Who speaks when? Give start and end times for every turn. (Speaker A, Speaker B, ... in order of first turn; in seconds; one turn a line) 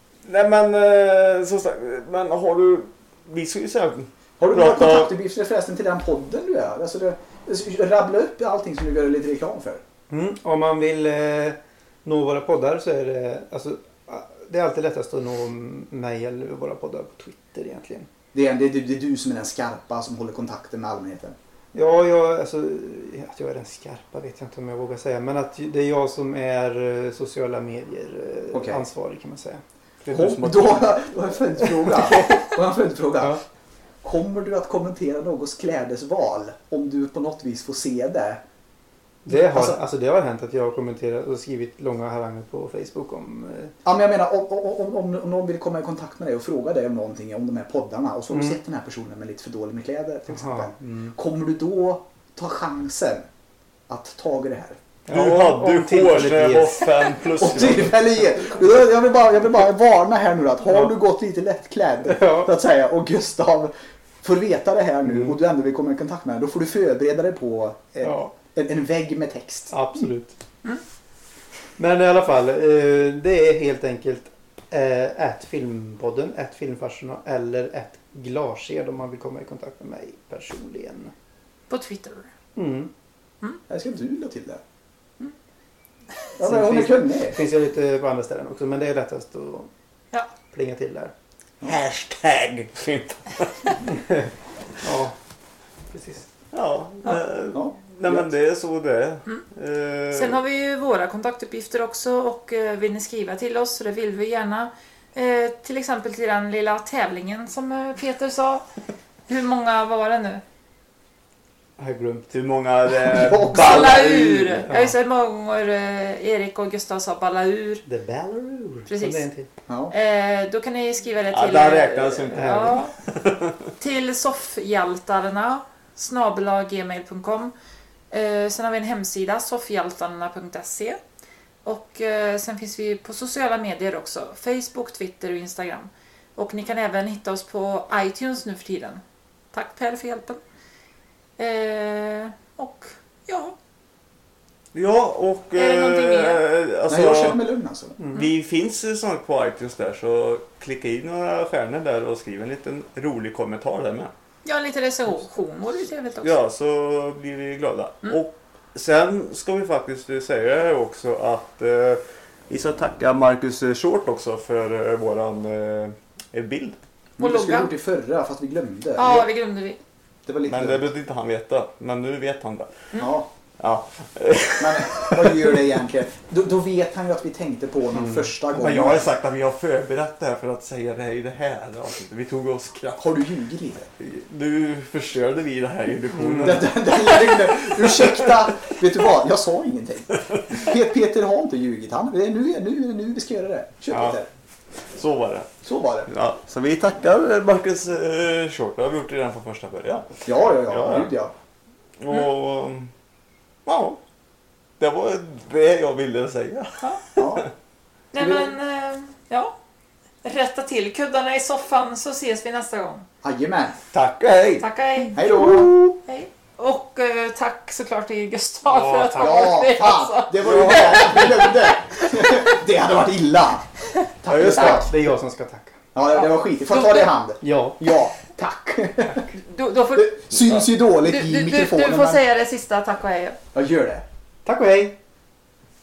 Speaker A: 0.3-5.1
Speaker B: 4.4-9.8
Speaker C: 10.1-18.1
Speaker B: 18.3-21.4
Speaker C: 21.7-30.5
Speaker B: 28.5-28.8
Speaker A: 30.1-30.9
Speaker B: 30.1-33.4
Speaker C: 31.8-32.3
Speaker B: 34.0-38.4
Speaker C: 39.2-43.7
Speaker B: 39.3-39.8
Speaker B: 43.8-53.3
Speaker C: 48.3-48.6
Speaker C: 50.3-51.1
Speaker B: 53.9-54.8
Speaker C: 55.1-56.9
Speaker A: 55.1-58.1
Speaker B: 57.4-69.7
Speaker C: 62.0-62.5
Speaker C: 68.0-68.3
Speaker C: 69.7-70.4
Speaker C: 71.8-81.1
Speaker D: 81.7-82.3
Speaker C: 82.5-82.9
Speaker B: 83.7-84.6
Speaker B: 86.4-87.4
Speaker C: 86.4-89.7
Speaker C: 90.5-91.1
Speaker A: 91.6-93.8
Speaker C: 93.9-94.3
Speaker C: 94.8-95.1
Speaker C: 95.9-96.3
Speaker A: 96.5-100.4
Speaker B: 97.5-98.3
Speaker D: 100.1-108.6
Speaker D: 109.3-110.4
Speaker A: 111.8-114.7
Speaker B: 113.0-114.2
Speaker D: 113.5-117.8
Speaker C: 114.7-115.0
Speaker C: 117.8-119.5
Speaker D: 118.9-119.3
Speaker B: 119.7-119.9
Speaker D: 119.9-122.9
Speaker A: 121.3-123.5
Speaker C: 122.3-122.8
Speaker D: 123.8-127.5
Speaker D: 128.1-131.0
Speaker D: 131.6-139.0
Speaker D: 139.5-140.4
Speaker D: 141.4-143.6
Speaker A: 144.7-147.4
Speaker D: 145.6-146.4
Speaker B: 146.9-148.0
Speaker C: 148.0-148.3
Speaker A: 148.1-154.1
Speaker D: 154.4-156.3
Speaker A: 156.2-166.8
Speaker B: 167.2-169.3
Speaker D: 167.2-167.7
Speaker D: 169.0-169.8
Speaker B: 170.3-170.9
Speaker A: 170.4-172.7
Speaker B: 172.9-173.3
Speaker A: 173.6-175.6
Speaker B: 174.6-179.1
Speaker C: 177.9-178.3
Speaker A: 178.5-183.2
Speaker B: 183.0-183.9
Speaker A: 184.0-188.3
Speaker C: 186.1-186.7
Speaker B: 186.4-194.3
Speaker A: 193.9-194.2
Speaker A: 194.9-195.5
Speaker B: 195.6-196.1
Speaker A: 196.1-201.1
Speaker B: 200.2-201.3
Speaker A: 202.0-202.9
Speaker A: 203.7-204.0
Speaker A: 204.8-207.5
Speaker B: 207.2-207.4
Speaker D: 208.1-209.6
Speaker B: 208.2-208.5
Speaker D: 210.2-213.1
Speaker B: 213.2-213.8
Speaker A: 213.9-215.9
Speaker D: 214.6-221.7
Speaker B: 215.1-215.9
Speaker A: 218.7-219.4
Speaker B: 219.1-223.7
Speaker A: 220.4-221.4
Speaker B: 224.2-224.9
Speaker A: 224.3-224.8
Speaker C: 224.4-225.8
Speaker B: 225.9-229.3
Speaker D: 226.7-227.1
Speaker C: 227.4-227.8
Speaker D: 229.3-233.4
Speaker B: 229.9-232.2
Speaker B: 233.5-234.1
Speaker C: 234.4-235.0